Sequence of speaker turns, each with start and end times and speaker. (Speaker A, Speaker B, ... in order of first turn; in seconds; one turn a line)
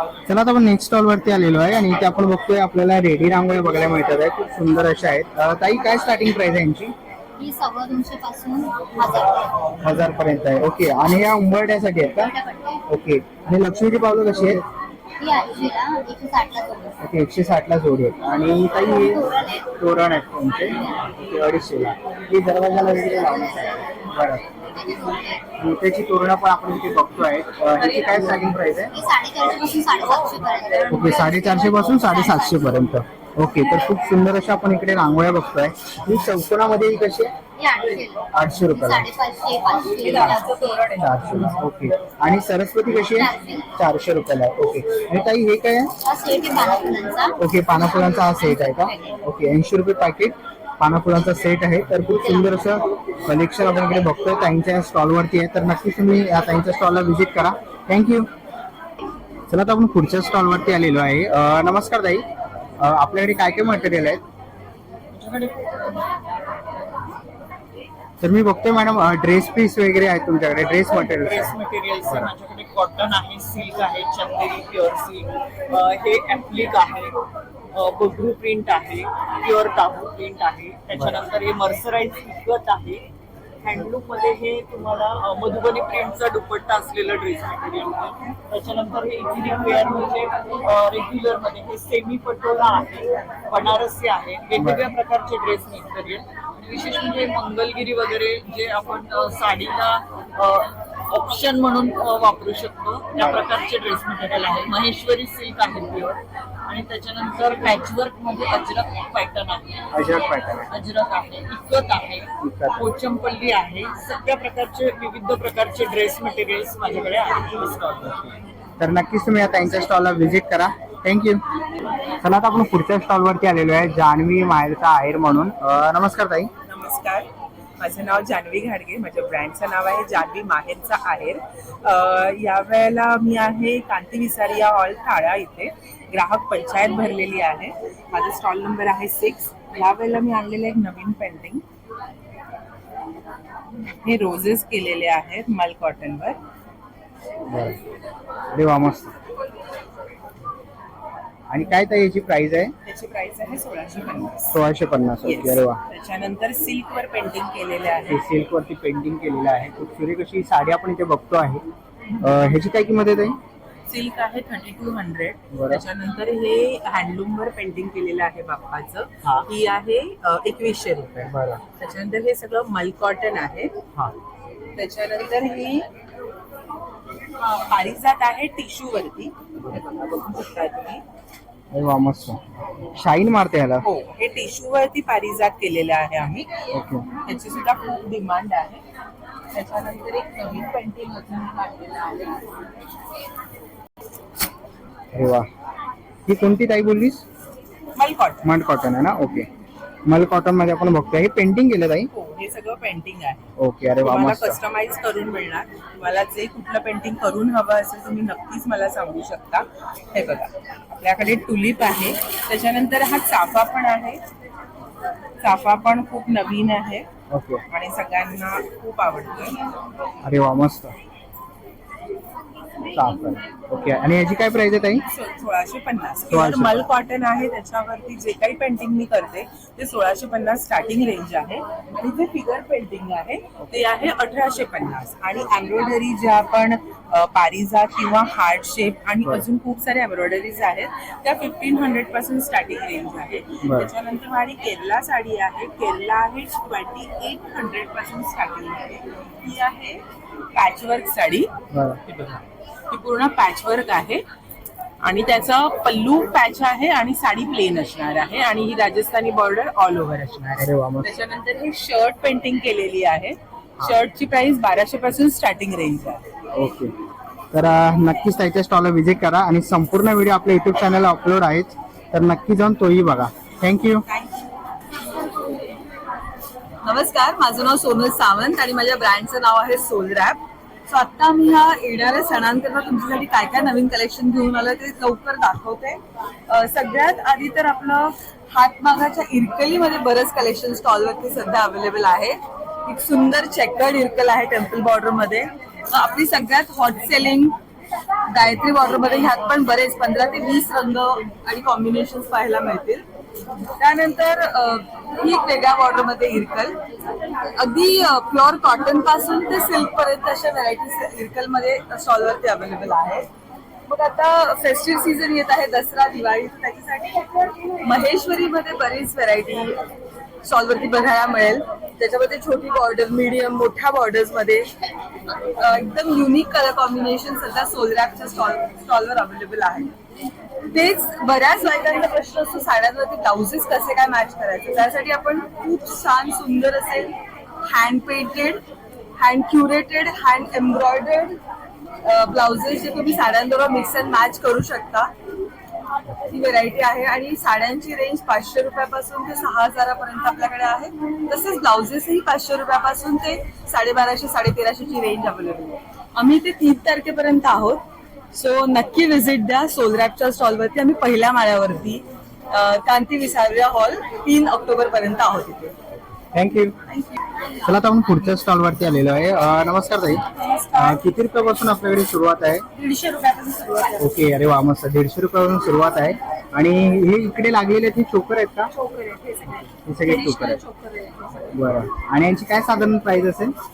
Speaker A: 0.3-6.9
Speaker B: 7.4-9.4
Speaker A: 9.8-12.3
Speaker B: 12.2-12.8
Speaker A: 12.9-14.6
Speaker B: 15.2-16.9
Speaker A: 17.0-24.5
Speaker B: 19.0-19.4
Speaker B: 24.8-25.2
Speaker A: 25.6-28.9
Speaker B: 28.9-32.7
Speaker A: 30.9-37.3
Speaker B: 37.6-40.8
Speaker A: 38.3-39.1
Speaker A: 40.0-40.4
Speaker C: 40.2-40.9
Speaker A: 41.0-45.9
Speaker B: 43.2-43.6
Speaker B: 46.0-47.3
Speaker A: 47.4-58.3
Speaker B: 47.9-49.1
Speaker A: 59.5-62.2
Speaker A: 62.8-64.2
Speaker D: 65.1-65.7
Speaker A: 68.2-72.3
Speaker D: 70.8-77.1
Speaker D: 77.7-83.0
Speaker A: 80.9-81.2
Speaker D: 83.6-106.2
Speaker A: 94.5-94.9
Speaker A: 103.2-103.4
Speaker D: 106.7-109.8
Speaker A: 109.9-110.7
Speaker D: 110.7-118.3
Speaker A: 112.4-112.8
Speaker A: 118.8-121.4
Speaker A: 122.2-126.5
Speaker C: 126.7-127.3
Speaker C: 127.8-141.6
Speaker C: 144.0-146.4
Speaker A: 147.5-147.8
Speaker A: 148.5-149.1
Speaker A: 151.5-152.7
Speaker C: 152.8-154.6
Speaker A: 154.5-155.8
Speaker C: 155.2-158.2
Speaker A: 158.1-161.6
Speaker A: 162.2-163.4
Speaker C: 163.9-173.8
Speaker A: 165.5-165.8
Speaker A: 171.3-171.6
Speaker C: 174.8-175.8
Speaker C: 177.4-181.0
Speaker A: 181.7-182.4
Speaker A: 182.9-183.8
Speaker C: 183.8-186.5
Speaker A: 186.7-187.0
Speaker C: 187.2-188.8
Speaker C: 189.5-192.4
Speaker A: 195.1-195.5
Speaker A: 196.3-197.2
Speaker C: 198.0-198.5
Speaker A: 198.4-199.5
Speaker A: 200.1-202.1
Speaker C: 202.1-203.5
Speaker A: 203.6-204.6
Speaker C: 204.0-214.2
Speaker C: 215.4-217.1
Speaker A: 217.3-217.6
Speaker C: 217.7-219.6
Speaker A: 220.2-220.9
Speaker A: 222.9-225.0
Speaker C: 225.1-250.0
Speaker A: 226.3-226.8
Speaker A: 243.6-243.9
Speaker C: 250.5-251.5
Speaker A: 251.7-252.0
Speaker C: 252.1-254.2
Speaker C: 255.0-266.3
Speaker A: 260.6-261.1
Speaker A: 266.5-266.9
Speaker A: 267.5-274.0
Speaker E: 276.8-297.5
Speaker E: 298.3-303.0
Speaker E: 303.8-306.7
Speaker E: 307.6-313.3
Speaker E: 313.9-319.8
Speaker E: 320.4-324.7
Speaker E: 325.6-329.9
Speaker E: 330.7-337.1
Speaker E: 337.6-338.6
Speaker E: 339.2-341.4
Speaker E: 342.0-345.1
Speaker E: 346.2-357.8
Speaker E: 358.3-365.7
Speaker A: 366.3-366.8
Speaker A: 367.6-372.6
Speaker F: 370.3-371.0
Speaker F: 372.8-374.1
Speaker A: 374.0-378.7
Speaker F: 378.7-381.4
Speaker A: 379.9-380.6
Speaker A: 381.5-383.5